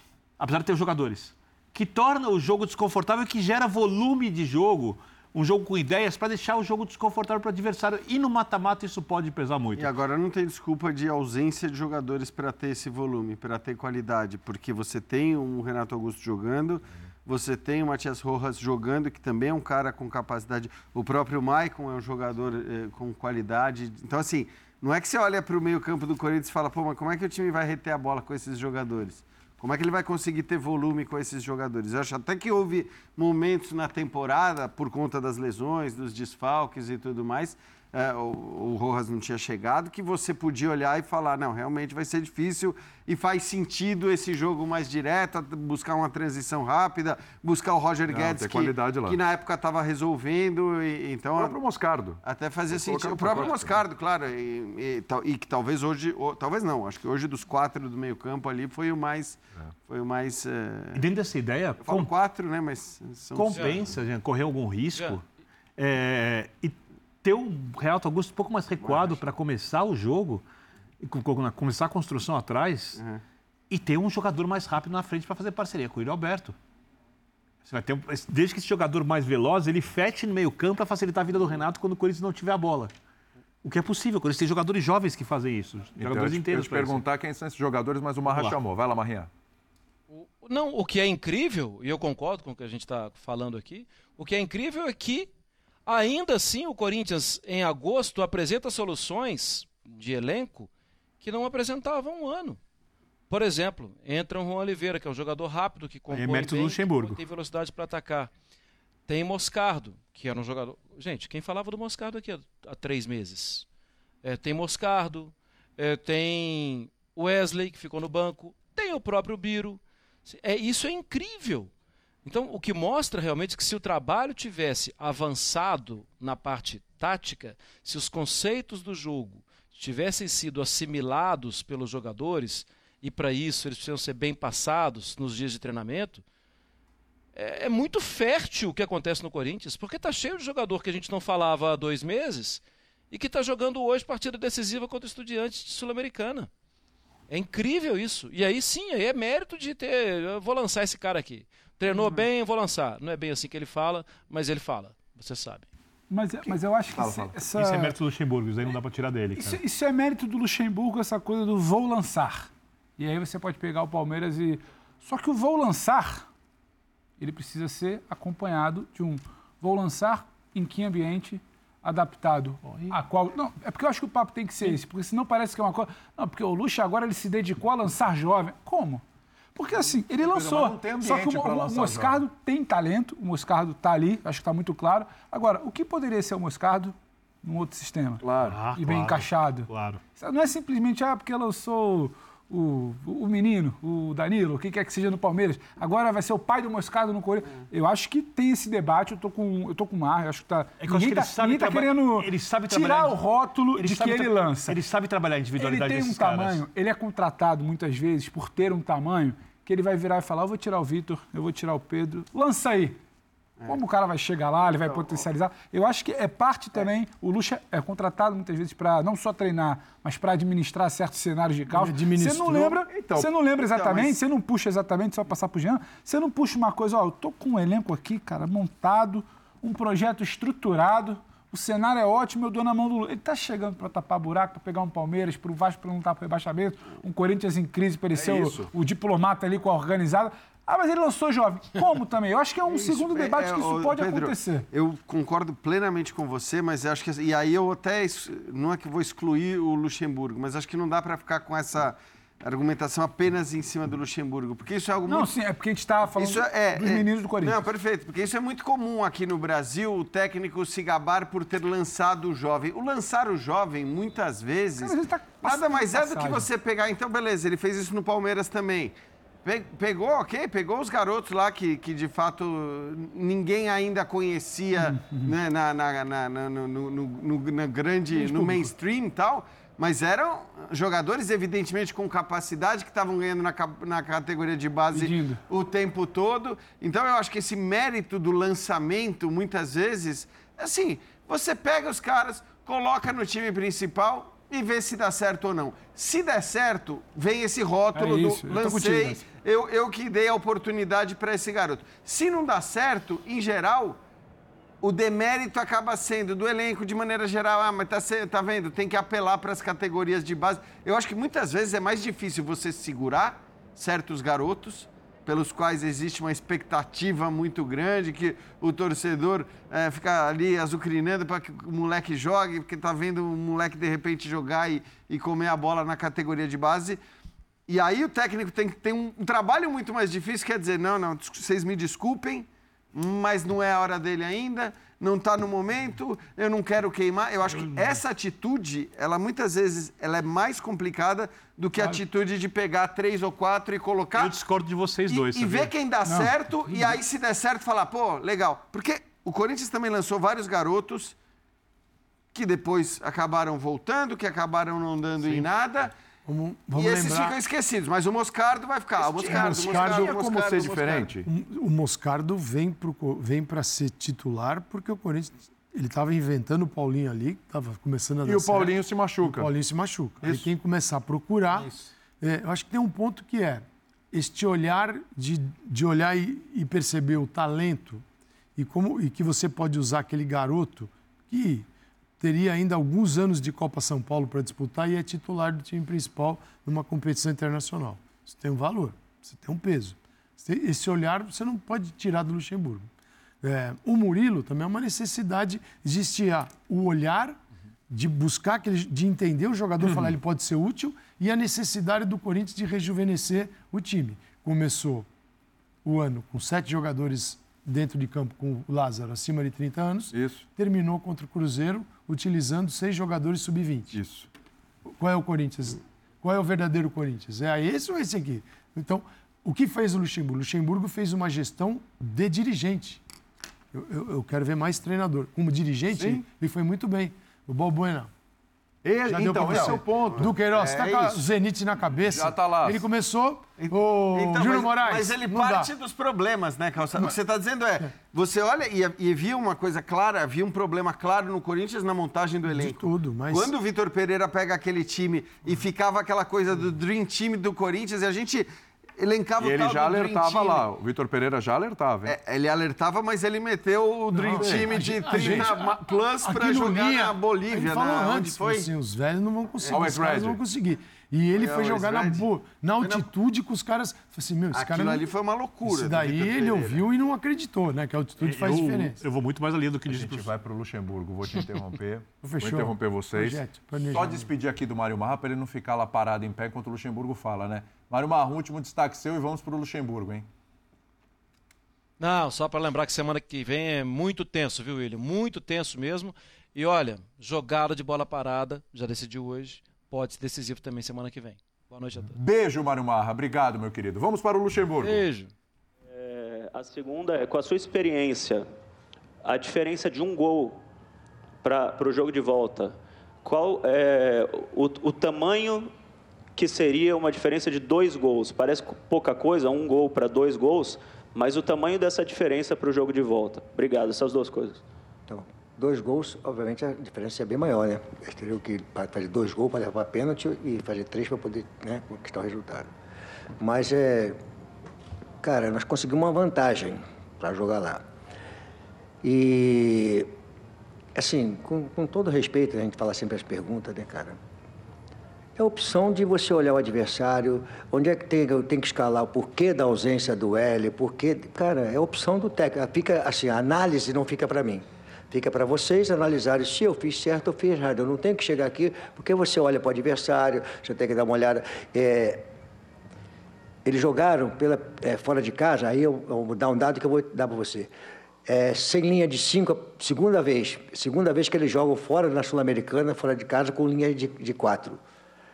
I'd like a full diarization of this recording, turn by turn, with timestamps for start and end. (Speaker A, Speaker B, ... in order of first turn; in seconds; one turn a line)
Speaker A: 0.4-9.9
Speaker B: 9.8-51.6
Speaker C: 48.1-49.2
Speaker C: 51.4-53.8
Speaker B: 52.2-61.0
Speaker A: 61.0-62.1
Speaker B: 61.8-63.8
Speaker A: 63.4-65.2
Speaker D: 63.5-63.8
Speaker A: 65.8-70.4
Speaker B: 68.8-69.2
Speaker A: 71.0-73.0
Speaker B: 73.0-73.2
Speaker A: 73.7-76.6
Speaker A: 77.7-82.9
Speaker A: 83.6-87.0
Speaker C: 86.0-89.3
Speaker A: 88.3-88.6
Speaker D: 90.1-95.3
Speaker D: 95.9-100.7
Speaker D: 101.2-102.6
Speaker D: 103.3-108.3
Speaker A: 106.1-107.2
Speaker D: 109.1-113.7
Speaker D: 114.2-121.7
Speaker D: 122.2-136.2
Speaker D: 137.3-146.5
Speaker D: 147.3-155.7
Speaker E: 156.1-157.9
Speaker C: 156.9-157.4
Speaker A: 157.6-159.6
Speaker E: 159.3-166.3
Speaker E: 167.2-179.0
Speaker A: 172.7-172.9
Speaker E: 179.6-188.2
Speaker C: 180.2-182.3
Speaker C: 188.2-188.6
Speaker A: 188.4-190.0
Speaker E: 188.8-204.8
Speaker A: 200.8-206.6
Speaker E: 205.6-213.0
Speaker E: 213.7-244.7
Speaker B: 214.7-215.2
Speaker F: 221.7-222.8
Speaker C: 222.9-223.3
Speaker B: 223.8-224.2
Speaker C: 238.2-238.7
Speaker B: 242.7-255.3
Speaker E: 255.1-257.6
Speaker B: 256.1-268.9
Speaker E: 264.8-266.5
Speaker B: 269.4-304.0
Speaker E: 274.8-275.4
Speaker E: 278.1-278.7
Speaker E: 284.9-285.4
Speaker E: 297.9-299.2
Speaker B: 304.8-327.0
Speaker B: 327.7-344.3
Speaker A: 337.5-338.0
Speaker A: 344.2-345.7
Speaker B: 345.1-351.2
Speaker E: 346.1-346.8
Speaker B: 352.3-355.9
Speaker F: 356.3-357.4
Speaker B: 356.7-361.1
Speaker F: 359.1-360.3
Speaker C: 359.1-361.3
Speaker F: 361.2-371.7
Speaker C: 368.2-369.5
Speaker C: 370.2-370.5
Speaker F: 372.2-378.0
Speaker F: 378.6-381.7
Speaker F: 382.2-392.9
Speaker F: 393.4-397.4
Speaker F: 397.9-405.1
Speaker C: 399.9-400.1
Speaker F: 405.9-414.0
Speaker C: 410.1-410.4
Speaker C: 413.9-414.3
Speaker F: 414.9-423.0
Speaker F: 423.7-428.1
Speaker C: 425.9-426.2
Speaker C: 428.8-430.3
Speaker F: 429.1-435.7
Speaker B: 429.4-431.2
Speaker C: 432.0-432.9
Speaker B: 433.6-448.5
Speaker F: 442.5-443.5
Speaker B: 449.0-450.7
Speaker C: 449.4-452.2
Speaker B: 452.1-458.7
Speaker F: 454.2-465.1
Speaker C: 454.2-455.5
Speaker B: 459.6-460.0
Speaker C: 459.7-460.4
Speaker B: 461.4-462.3
Speaker B: 462.8-463.1
Speaker B: 464.5-466.8
Speaker F: 465.6-469.0
Speaker A: 468.2-470.3
Speaker C: 469.9-480.3
Speaker F: 472.2-474.3
Speaker D: 482.0-492.1
Speaker C: 492.0-495.1
Speaker D: 494.8-495.3
Speaker G: 495.9-498.5
Speaker G: 499.2-500.6
Speaker G: 501.4-505.7
Speaker G: 506.4-514.6
Speaker H: 515.1-522.7
Speaker H: 523.4-524.2
Speaker H: 525.2-527.8
Speaker H: 529.0-530.1
Speaker H: 531.0-534.2
Speaker H: 535.4-552.3
Speaker H: 553.6-557.7
Speaker H: 558.3-564.8